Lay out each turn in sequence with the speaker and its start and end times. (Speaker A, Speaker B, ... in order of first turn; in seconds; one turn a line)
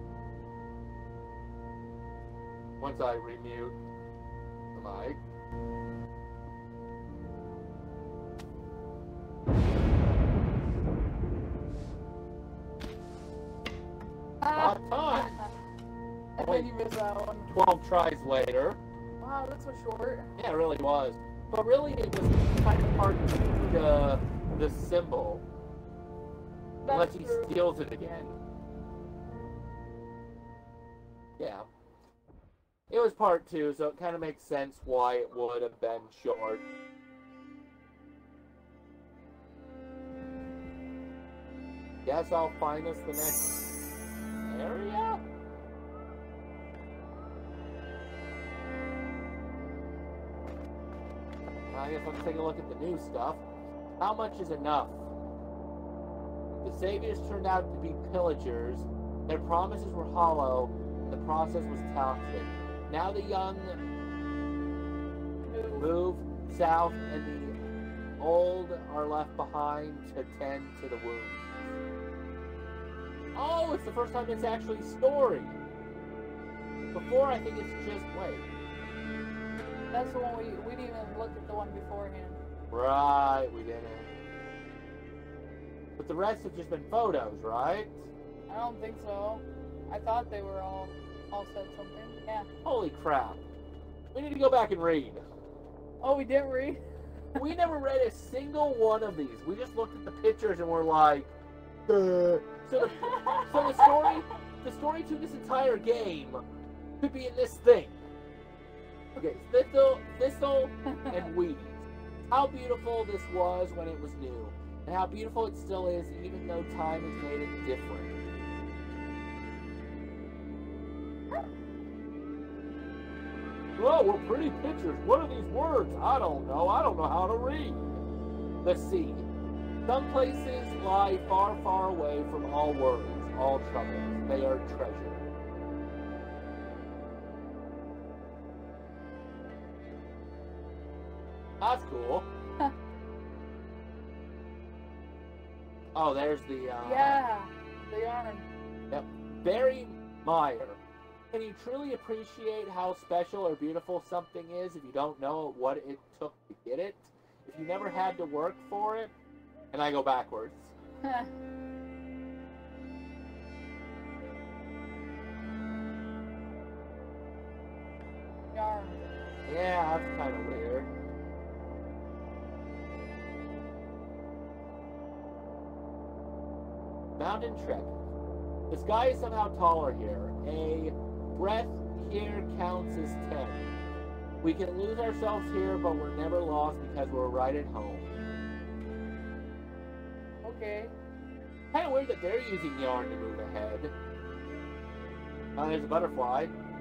Speaker A: 2.8-3.8
Speaker A: 4.8-5.2
Speaker B: 14.4-15.5
Speaker A: 14.5-15.4
Speaker B: 16.4-17.5
Speaker A: 16.4-16.7
Speaker A: 17.5-18.8
Speaker B: 19.2-20.4
Speaker A: 20.4-25.4
Speaker B: 26.8-27.6
Speaker A: 26.9-28.4
Speaker A: 31.4-31.7
Speaker A: 32.9-36.6
Speaker A: 42.0-43.6
Speaker A: 44.5-45.2
Speaker A: 51.7-53.4
Speaker A: 54.0-55.0
Speaker A: 56.6-63.8
Speaker B: 65.5-65.9
Speaker A: 65.8-67.5
Speaker A: 68.2-71.5
Speaker A: 73.3-75.6
Speaker A: 76.9-78.5
Speaker B: 79.9-82.4
Speaker A: 82.7-84.1
Speaker A: 86.0-88.0
Speaker B: 88.5-92.5
Speaker A: 92.6-93.4
Speaker A: 94.1-95.2
Speaker B: 96.0-96.8
Speaker A: 97.4-101.3
Speaker A: 101.9-106.4
Speaker B: 102.8-104.2
Speaker A: 107.0-108.0
Speaker A: 109.2-118.2
Speaker B: 110.9-111.3
Speaker A: 123.8-128.0
Speaker A: 128.6-129.3
Speaker A: 129.8-135.2
Speaker A: 141.6-142.3
Speaker A: 145.9-147.2
Speaker B: 146.8-148.5
Speaker A: 148.9-150.8
Speaker A: 151.3-159.1
Speaker A: 159.7-160.7
Speaker B: 161.0-161.3
Speaker B: 168.5-169.0
Speaker A: 169.5-170.9
Speaker A: 177.2-177.9
Speaker A: 178.7-183.7
Speaker A: 184.4-188.1
Speaker B: 190.4-190.9
Speaker A: 191.7-193.9
Speaker A: 195.6-196.5